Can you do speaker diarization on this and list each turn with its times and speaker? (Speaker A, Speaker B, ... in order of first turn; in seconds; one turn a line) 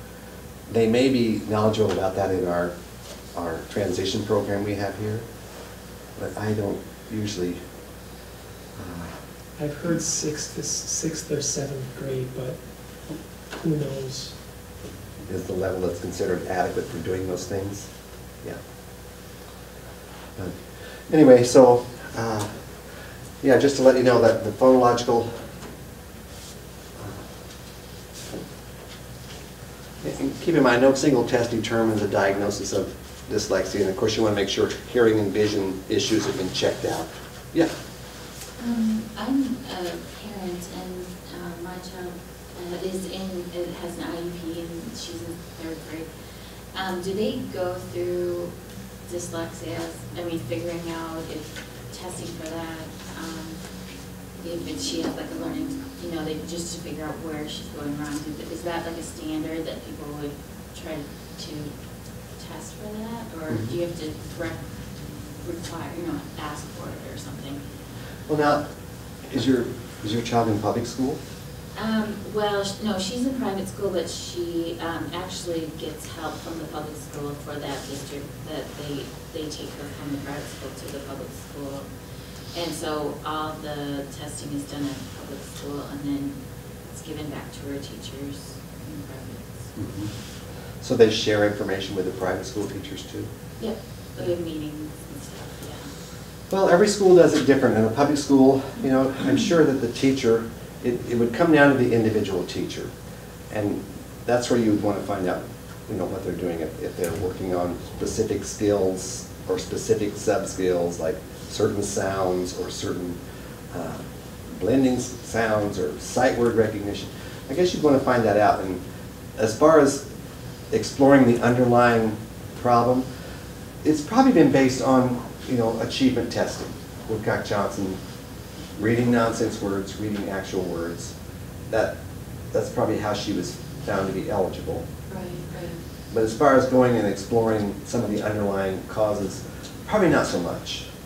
Speaker A: 0.7-2.7
Speaker A: 3.3-5.2
Speaker A: 6.2-7.6
Speaker A: 8.8-9.2
Speaker B: 9.6-14.4
Speaker A: 15.3-17.9
Speaker A: 20.4-22.6
Speaker A: 23.4-25.5
Speaker A: 27.0-27.2
Speaker A: 30.0-37.7
Speaker C: 38.6-53.6
Speaker C: 54.4-61.7
Speaker C: 62.3-64.8
Speaker A: 63.5-63.8
Speaker C: 65.3-67.6
Speaker A: 68.3-68.7
Speaker A: 69.3-71.2
Speaker C: 71.7-81.9
Speaker C: 82.5-89.7
Speaker A: 89.8-90.1
Speaker A: 90.8-93.3
Speaker C: 93.6-95.9
Speaker A: 96.5-102.9
Speaker A: 103.5-113.2
Speaker A: 113.7-118.8
Speaker A: 119.4-120.0
Speaker A: 120.7-123.1
Speaker A: 123.8-128.0
Speaker A: 128.8-131.1
Speaker A: 131.7-132.0
Speaker A: 132.5-134.8
Speaker C: 135.1-135.8
Speaker A: 136.1-140.9